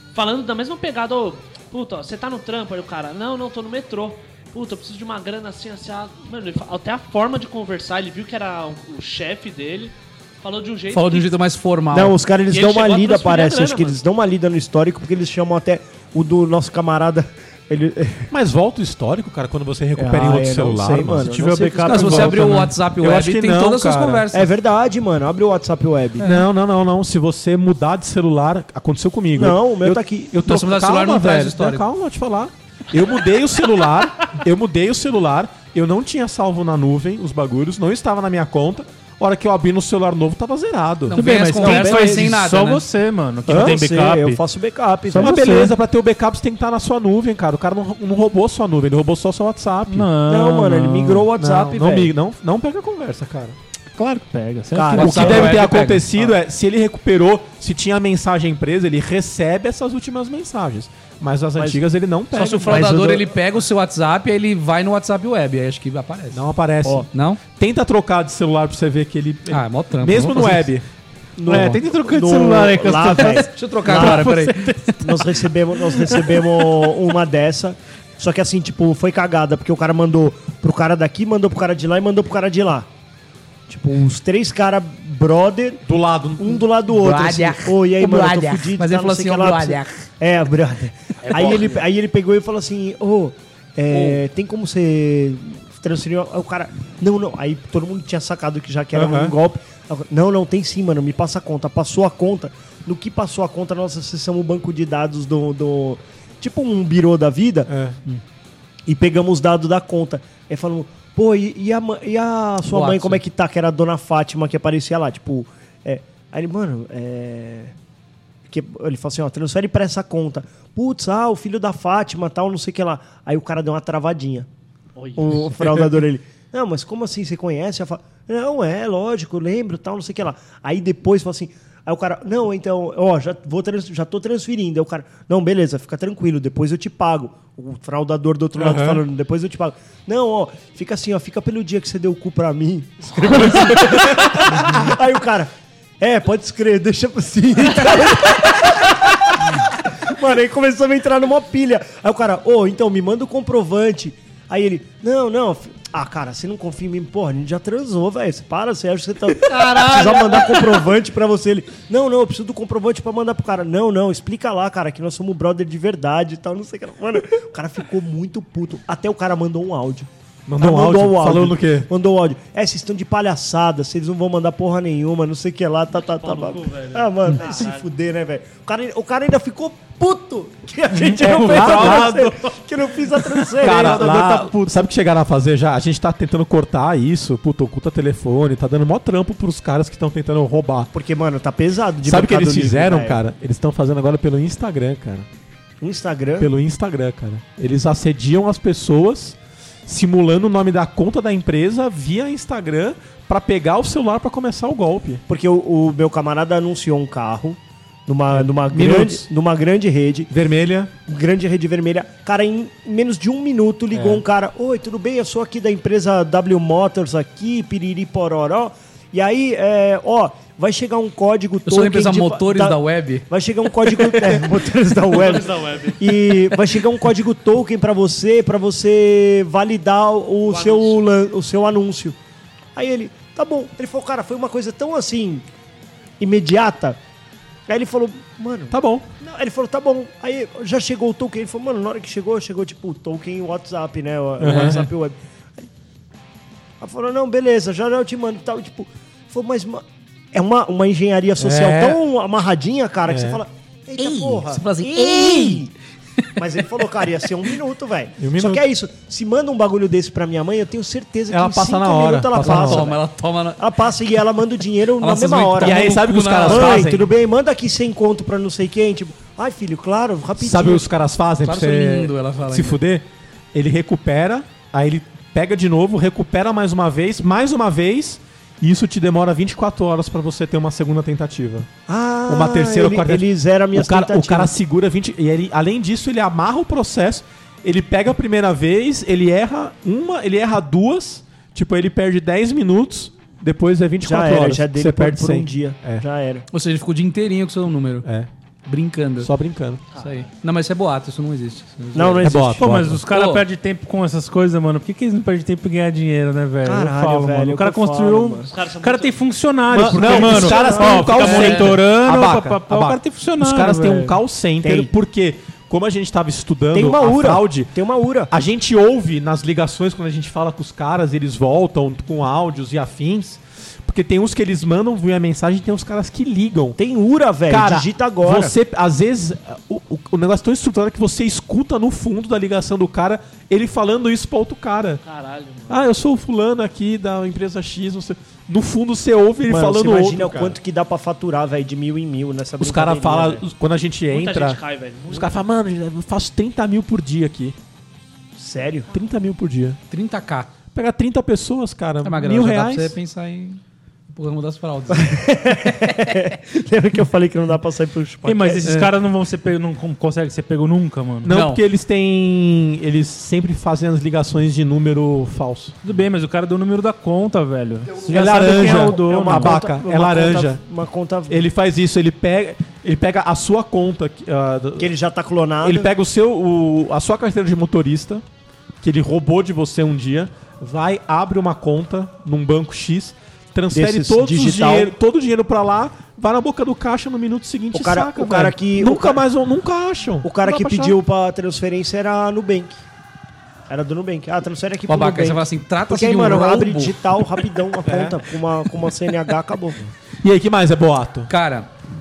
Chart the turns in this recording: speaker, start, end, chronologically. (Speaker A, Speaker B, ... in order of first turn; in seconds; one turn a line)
Speaker A: 0.1-11.4
Speaker B: 10.9-12.1
Speaker C: 11.9-18.3
Speaker A: 12.5-14.0
Speaker D: 18.3-21.3
Speaker C: 19.9-22.4
Speaker E: 21.2-22.7
Speaker B: 21.8-24.5
Speaker D: 22.4-24.2
Speaker C: 24.3-26.3
Speaker D: 26.2-41.2
Speaker C: 29.4-30.4
Speaker B: 30.4-31.8
Speaker B: 41.1-42.9
Speaker E: 41.1-44.4
Speaker C: 41.6-42.2
Speaker D: 43.5-43.8
Speaker C: 43.5-45.4
Speaker E: 45.1-45.7
Speaker D: 45.1-50.1
Speaker E: 49.9-51.2
Speaker C: 50.2-52.1
Speaker D: 51.1-53.5
Speaker E: 53.9-55.3
Speaker C: 54.7-55.6
Speaker B: 54.9-56.1
Speaker D: 55.0-63.0
Speaker B: 62.3-66.4
Speaker C: 62.4-63.3
Speaker D: 66.3-70.8
Speaker B: 67.1-67.4
Speaker B: 69.5-70.7
Speaker C: 71.4-74.3
Speaker D: 71.5-71.8
Speaker B: 71.5-71.8
Speaker E: 71.5-75.3
Speaker B: 73.1-74.8
Speaker C: 75.0-82.9
Speaker E: 76.0-76.4
Speaker C: 83.7-85.8
Speaker D: 85.8-86.6
Speaker C: 86.4-107.7
Speaker B: 86.9-90.0
Speaker A: 91.2-91.8
Speaker B: 93.9-94.2
Speaker D: 98.9-99.3
Speaker D: 107.7-108.0
Speaker C: 108.9-117.7
Speaker B: 112.7-113.2
Speaker C: 118.5-124.5
Speaker A: 125.0-125.5
Speaker C: 125.2-170.1
Speaker D: 138.6-139.0
Speaker D: 143.8-144.1
Speaker A: 159.4-160.9
Speaker D: 170.5-171.9
Speaker C: 170.6-184.3
Speaker A: 176.0-177.8
Speaker E: 180.9-182.3
Speaker D: 181.2-182.3
Speaker E: 183.4-184.8
Speaker D: 183.6-190.9
Speaker C: 190.9-193.2
Speaker D: 192.0-195.3
Speaker C: 195.8-196.5
Speaker D: 196.4-205.2
Speaker C: 205.3-210.3
Speaker D: 208.3-209.3
Speaker D: 210.3-210.9
Speaker C: 211.1-232.2
Speaker D: 213.9-214.2
Speaker B: 221.7-223.2
Speaker A: 225.1-226.0
Speaker A: 230.5-231.0
Speaker C: 232.7-235.4
Speaker C: 236.2-237.0
Speaker C: 237.7-245.7
Speaker D: 238.7-239.1
Speaker D: 244.4-244.9
Speaker C: 246.8-255.7
Speaker D: 251.4-252.0
Speaker D: 253.1-253.4
Speaker B: 254.0-255.7
Speaker C: 256.4-263.0
Speaker D: 258.2-258.6
Speaker D: 261.3-262.9
Speaker B: 262.3-263.6
Speaker C: 263.6-265.9
Speaker B: 265.0-266.9
Speaker D: 265.6-267.1
Speaker C: 266.4-270.9
Speaker D: 270.4-281.7
Speaker B: 271.4-272.8
Speaker C: 281.9-284.5
Speaker D: 282.3-296.0
Speaker C: 294.0-296.4
Speaker B: 296.5-298.1
Speaker D: 298.0-298.3
Speaker B: 298.6-299.3
Speaker D: 299.2-299.8
Speaker A: 299.9-300.3
Speaker B: 299.9-302.3
Speaker C: 301.9-302.7
Speaker D: 302.2-303.0
Speaker E: 302.6-314.2
Speaker B: 303.1-303.4
Speaker C: 306.6-308.5
Speaker A: 308.5-309.2
Speaker D: 309.7-317.7
Speaker C: 309.8-311.5
Speaker B: 311.3-311.6
Speaker C: 314.6-314.9
Speaker C: 316.7-318.3
Speaker D: 318.3-326.8
Speaker C: 326.8-328.5
Speaker D: 327.5-335.0
Speaker A: 335.0-335.8
Speaker D: 335.7-340.6
Speaker C: 339.5-343.4
Speaker D: 342.6-347.6
Speaker A: 344.1-345.4
Speaker C: 348.4-348.9
Speaker D: 348.9-349.8
Speaker B: 349.9-350.5
Speaker D: 350.7-352.9
Speaker B: 352.0-353.6
Speaker B: 354.1-355.2
Speaker C: 354.9-358.6
Speaker E: 358.2-361.3
Speaker B: 358.6-358.9
Speaker D: 361.2-365.8
Speaker B: 361.3-361.6
Speaker E: 365.8-369.6
Speaker C: 368.1-371.4
Speaker D: 368.1-370.6
Speaker D: 371.3-374.9
Speaker C: 374.8-375.9
Speaker D: 375.6-378.2
Speaker D: 378.8-391.0
Speaker C: 383.7-384.9
Speaker C: 387.7-389.2
Speaker C: 390.2-392.8
Speaker C: 393.7-399.8
Speaker B: 394.9-397.0
Speaker D: 397.8-398.2
Speaker D: 400.2-401.3
Speaker B: 401.3-401.7